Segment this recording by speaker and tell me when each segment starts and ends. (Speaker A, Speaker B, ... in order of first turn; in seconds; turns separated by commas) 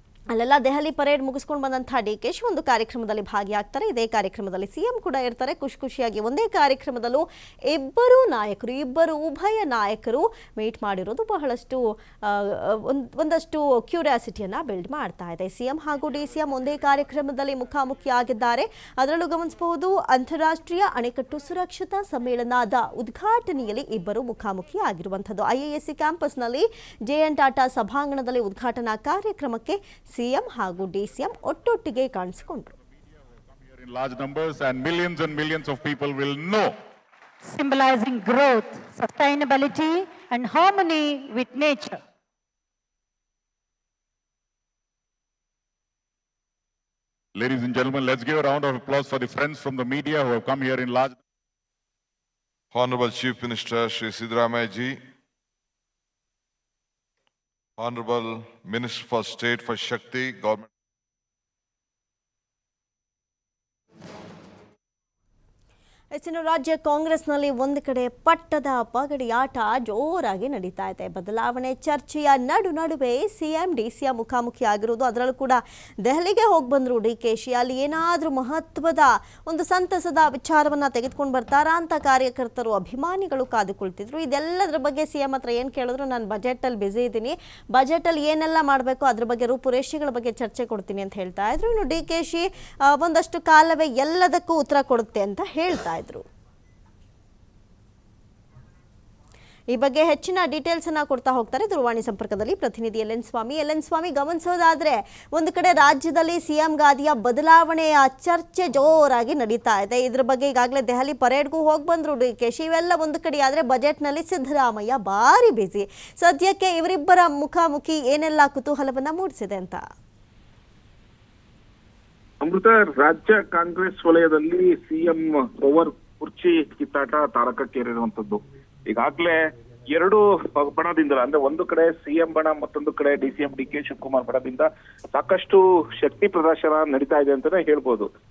Speaker A: 0.3-32.7, Speaker B: 33.7-36.8, Speaker C: 37.4-42.0, Speaker B: 47.3-51.2, Speaker D: 52.7-55.0, Speaker D: 57.8-60.7, Speaker A: 66.1-96.2, Speaker A: 99.7-119.8, Speaker E: 122.4-129.4, Speaker E: 129.9-138.1